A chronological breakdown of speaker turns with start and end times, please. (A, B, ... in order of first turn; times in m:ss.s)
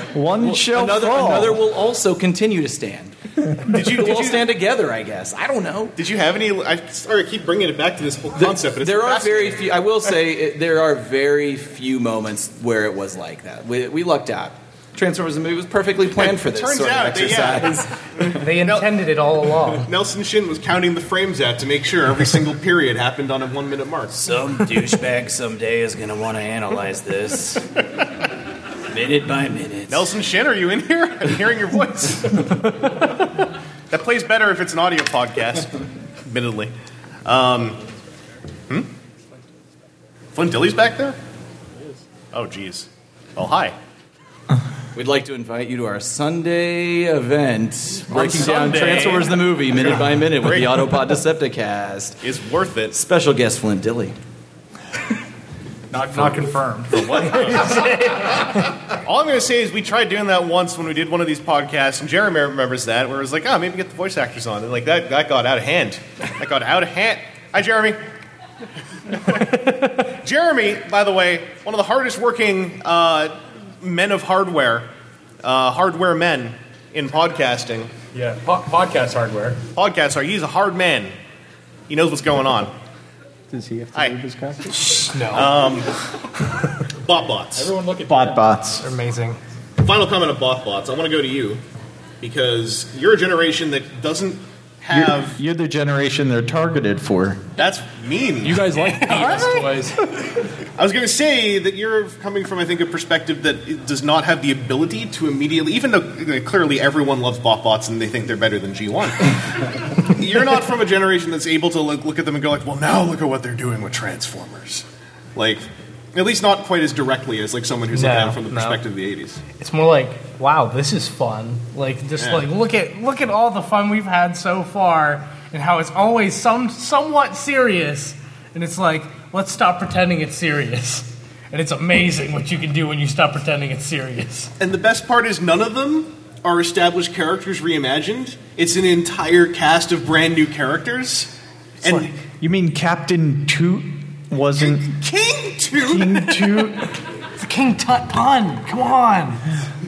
0:00.1-0:01.6 A
0:00.4-0:06.0 B
0:03.6-0:04.5 C
0:06.0-0:09.6 C
0:08.4-0:17.9 B
0:16.2-0:19.0 C
0:18.4-0:19.9 D
0:19.8-0:24.1 C
0:24.1-0:27.6 B
0:28.9-0:30.1 B
0:29.9-0:32.7 C
0:33.9-0:36.7 C
0:37.2-0:37.8 C
0:40.3-0:41.2 C
0:42.3-0:43.7 C
0:44.9-0:52.2 B
0:48.1-0:49.4 E
0:49.8-0:51.0 C
0:52.2-0:53.0 C
0:52.9-0:54.2 B
0:55.9-0:57.9 E
0:56.9-0:58.4 D
0:58.9-1:08.0 C
1:09.3-1:14.9 C
1:15.4-1:17.9 C
1:18.1-1:19.6 E
1:19.7-1:21.1 C
1:21.9-1:22.7 C
1:23.5-1:25.0 A
1:24.7-1:25.5 D
1:25.3-1:25.9 C
1:27.0-1:27.7 C
1:27.5-1:28.5 E
1:28.1-1:28.9 A
1:28.8-1:29.4 D
1:29.8-1:31.6 C
1:32.2-1:35.4 C
1:34.9-1:37.4 A
1:37.6-1:38.6 C
1:38.4-1:40.0 E
1:38.8-1:39.8 D
1:40.8-1:49.4 C
1:50.1-1:54.8 C
1:55.4-1:59.4 C
1:57.9-1:58.8 D
1:59.5-2:14.5 D
2:02.2-2:02.5 C
2:14.6-2:22.1 C
2:21.8-2:22.1 D
2:22.4-2:24.9 A
2:24.6-2:26.4 C
2:25.8-2:26.9 A
2:27.4-2:29.4 D